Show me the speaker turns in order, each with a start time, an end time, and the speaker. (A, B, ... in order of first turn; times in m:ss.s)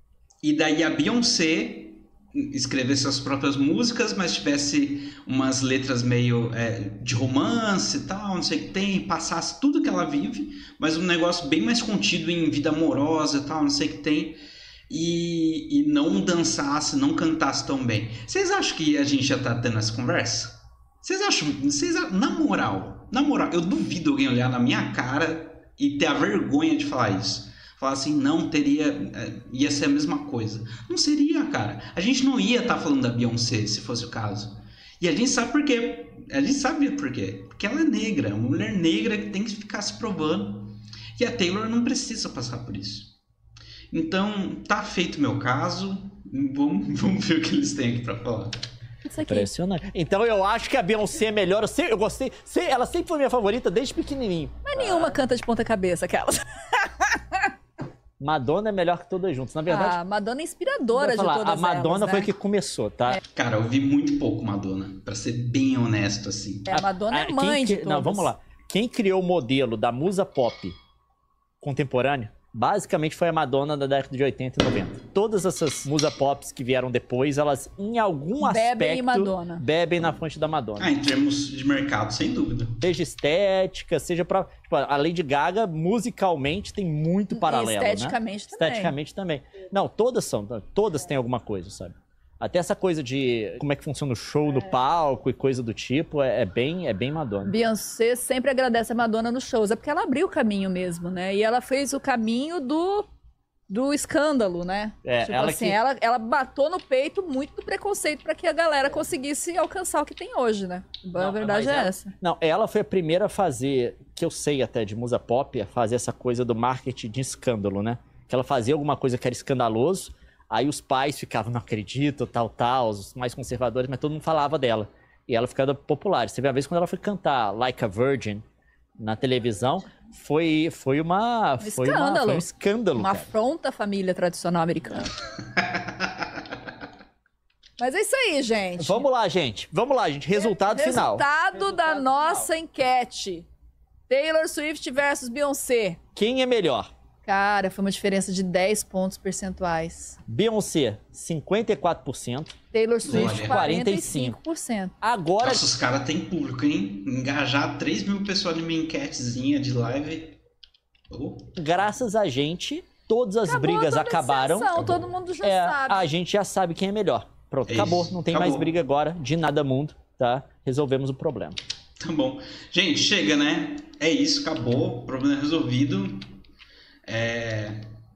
0:00.4-0:43.2 A
0:43.9-0:48.5 A
0:49.1-0:49.5 B
0:49.2-0:55.2 C
0:54.6-0:57.5 B
0:58.2-1:00.0 C
0:59.7-1:02.3 B
1:00.9-1:03.2 C
1:03.3-1:06.7 A
1:06.7-1:08.3 B
1:06.7-1:10.8 C
1:11.6-1:20.9 C
1:18.4-1:19.6 B
1:20.8-1:22.8 A
1:22.8-1:37.6 C
1:27.3-1:28.9 B
1:37.5-1:43.1 B
1:43.7-1:52.1 B
1:45.0-1:45.8 C
1:51.2-2:08.4 C
2:09.0-2:13.3 C
2:11.6-2:15.1 B
2:15.5-2:16.3 A
2:17.8-2:19.0 B
2:18.8-2:22.5 C
2:20.4-2:23.5 B
2:24.1-2:26.0 B
2:26.2-2:26.9 C
2:27.3-2:30.2 B
2:30.3-2:32.6 C
2:32.7-2:35.0 B
2:33.0-2:33.7 A
2:33.1-2:34.4 C
2:35.0-2:35.7 C
2:35.4-2:40.4 A
2:41.1-2:41.8 A
2:41.6-2:51.6 C
2:43.5-2:46.1 B
2:47.6-2:48.7 A
2:52.0-2:56.3 A
2:57.1-2:57.8 A